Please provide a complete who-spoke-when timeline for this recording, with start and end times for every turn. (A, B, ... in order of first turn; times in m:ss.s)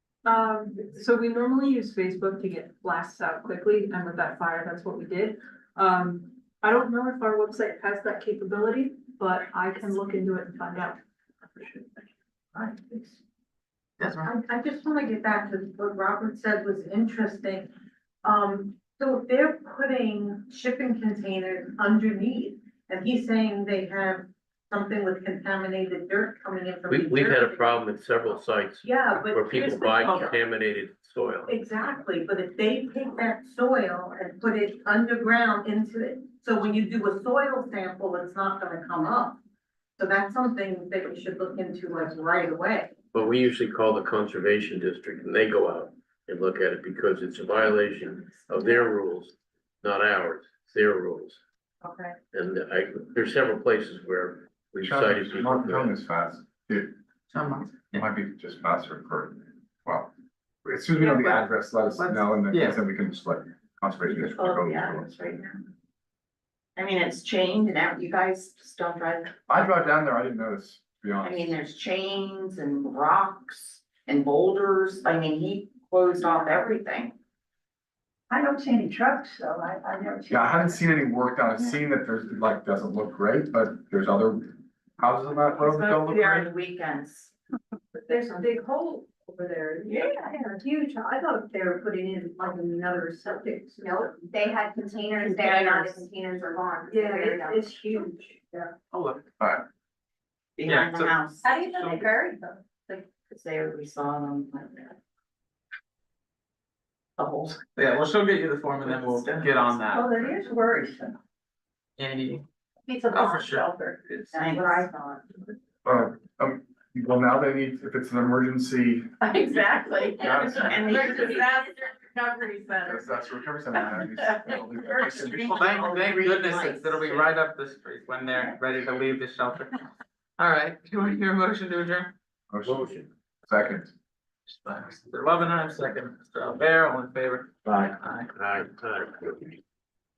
0:00.2-0:11.0 A
0:11.5-0:11.9 A
0:12.5-0:13.2 B
0:14.0-0:14.3 C
0:14.2-0:17.7 B
0:18.2-0:27.8 B
0:26.9-0:31.5 D
0:28.8-0:30.4 B
0:31.5-0:39.4 B
0:40.0-0:42.9 B
0:43.1-0:51.4 D
0:51.8-0:52.2 B
0:52.3-0:55.9 D
0:54.8-0:56.9 E
0:57.3-0:58.1 C
0:57.9-1:00.1 E
1:00.6-1:05.2 E
1:02.0-1:02.8 C
1:06.8-1:09.5 F
1:09.5-1:11.6 E
1:11.2-1:17.1 F
1:18.3-1:20.3 B
1:20.3-1:26.5 E
1:25.7-1:27.3 F
1:28.1-1:34.4 B
1:33.8-1:38.0 G
1:35.4-1:36.0 B
1:36.9-1:38.4 B
1:38.9-1:39.3 C
1:40.6-1:41.4 F
1:40.6-1:42.0 C
1:41.5-1:42.7 B
1:43.3-1:45.0 F
1:47.2-1:47.6 F
1:47.6-1:50.1 C
1:50.1-1:51.0 B
1:52.0-1:52.4 C
1:53.1-1:54.3 C
1:54.3-1:55.0 F
1:55.8-1:59.2 E
2:00.2-2:01.1 E
2:00.6-2:01.4 F
2:02.8-2:05.6 E
2:05.2-2:07.3 F
2:05.4-2:09.8 C
2:10.4-2:12.1 C
2:12.5-2:13.9 E
2:12.6-2:13.1 D
2:14.5-2:18.3 C
2:17.6-2:18.0 E
2:18.3-2:19.6 D